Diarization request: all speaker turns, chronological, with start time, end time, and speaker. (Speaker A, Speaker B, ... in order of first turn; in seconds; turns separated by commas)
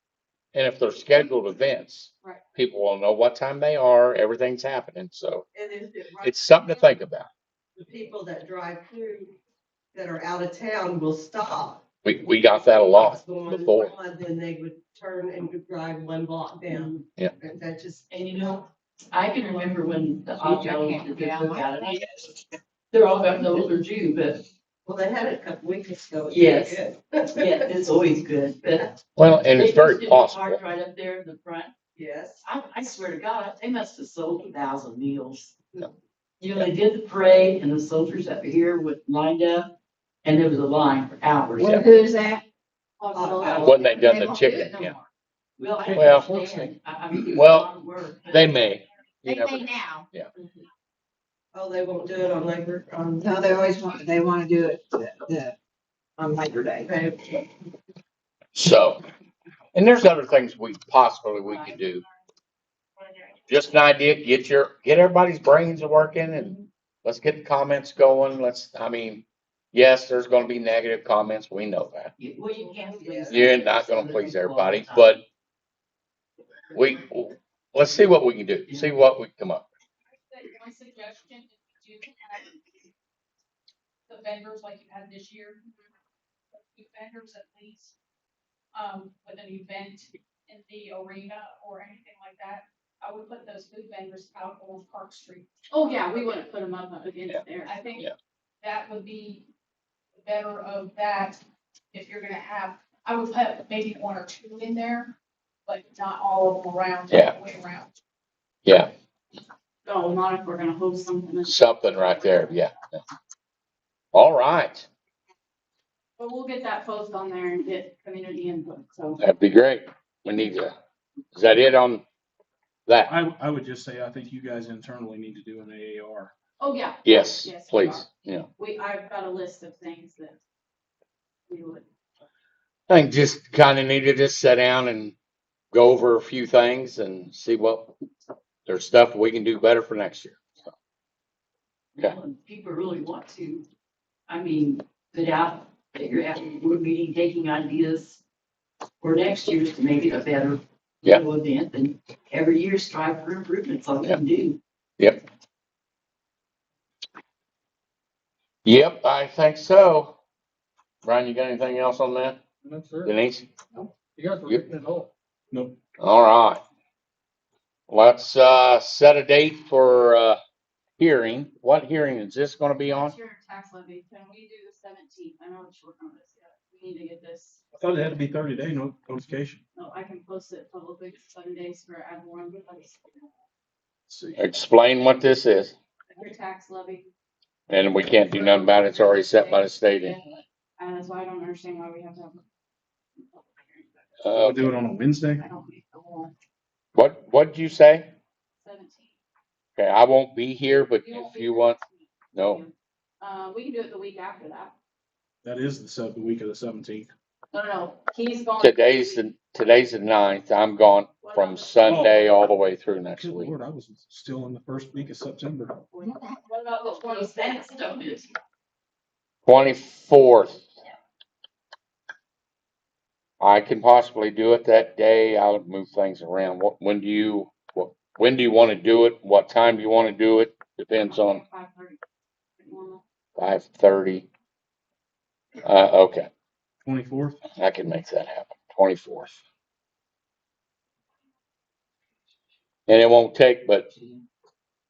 Speaker A: 0.5-5.5, Speaker B: 5.5-6.8, Speaker A: 6.2-7.3, Speaker B: 7.8-9.3, Speaker B: 9.9-11.8, Speaker A: 12.0-14.0, Speaker B: 13.0-18.1, Speaker C: 16.7-17.1, Speaker C: 18.1-22.2, Speaker D: 20.4-22.1, Speaker C: 22.9-24.5, Speaker B: 24.9-27.7, Speaker C: 26.3-26.8, Speaker C: 27.4-29.0, Speaker A: 29.2-30.6, Speaker C: 29.6-31.7, Speaker B: 31.9-32.4, Speaker C: 32.4-35.6, Speaker C: 36.4-41.8, Speaker A: 41.6-41.9, Speaker D: 41.6-42.4, Speaker E: 43.0-44.0, Speaker B: 43.1-43.9, Speaker C: 43.4-43.8, Speaker A: 43.6-45.0, Speaker D: 43.8-45.1, Speaker C: 45.6-48.7, Speaker F: 45.9-46.7, Speaker A: 45.9-46.4, Speaker A: 47.1-47.7, Speaker A: 48.3-50.3, Speaker D: 49.2-50.1, Speaker B: 51.5-53.7, Speaker D: 53.2-55.5, Speaker D: 56.2-56.9, Speaker A: 58.5-59.0, Speaker A: 59.7-62.0, Speaker A: 63.5-72.1, Speaker C: 72.2-75.2, Speaker B: 72.6-73.6, Speaker A: 73.3-75.2, Speaker A: 76.8-79.7, Speaker C: 78.7-79.0, Speaker G: 80.2-82.6, Speaker G: 84.1-85.6, Speaker G: 86.5-87.9, Speaker G: 88.7-96.5, Speaker E: 95.7-97.8, Speaker G: 97.6-98.1, Speaker G: 98.6-99.5, Speaker G: 100.2-101.4, Speaker G: 101.9-105.2, Speaker G: 105.7-108.0, Speaker A: 107.1-107.3, Speaker A: 108.7-108.9, Speaker E: 109.8-112.5, Speaker A: 111.5-113.0, Speaker A: 114.1-114.9, Speaker E: 116.2-119.2, Speaker A: 119.2-120.7, Speaker A: 121.3-122.0, Speaker A: 122.9-123.1, Speaker F: 123.1-126.3, Speaker E: 126.6-130.4, Speaker A: 127.0-128.5, Speaker E: 131.5-131.9, Speaker A: 132.9-135.2, Speaker A: 135.7-138.0, Speaker A: 138.7-140.7, Speaker C: 142.0-143.7, Speaker C: 144.3-148.2, Speaker C: 149.0-154.6, Speaker A: 158.7-160.2, Speaker A: 161.0-162.4, Speaker F: 162.7-163.1, Speaker A: 163.1-163.5, Speaker F: 164.2-165.8, Speaker A: 166.0-166.6, Speaker A: 167.9-170.4, Speaker A: 171.0-173.2, Speaker E: 172.9-177.6, Speaker F: 177.7-179.6, Speaker E: 179.8-183.1, Speaker F: 184.1-184.4, Speaker A: 184.4-185.8, Speaker E: 186.1-187.1, Speaker A: 187.7-190.2, Speaker E: 188.3-190.2, Speaker E: 190.8-192.4, Speaker E: 193.2-193.9, Speaker A: 194.2-194.7, Speaker F: 194.3-195.4, Speaker E: 195.4-196.3, Speaker A: 196.9-198.1, Speaker E: 198.6-199.2, Speaker A: 199.8-201.8, Speaker E: 201.0-204.7, Speaker A: 202.3-202.6, Speaker F: 205.4-207.1, Speaker E: 207.5-209.2, Speaker A: 208.6-213.5, Speaker E: 211.2-211.8, Speaker F: 211.9-212.2, Speaker F: 213.2-215.8, Speaker E: 215.9-217.9, Speaker D: 216.0-217.3, Speaker C: 217.3-218.3, Speaker A: 219.4-220.7, Speaker A: 223.4-231.4, Speaker E: 231.0-232.0, Speaker E: 232.6-233.0, Speaker A: 233.4-234.3, Speaker A: 235.6-236.3, Speaker F: 236.8-237.4, Speaker A: 237.6-239.4, Speaker A: 242.9-243.9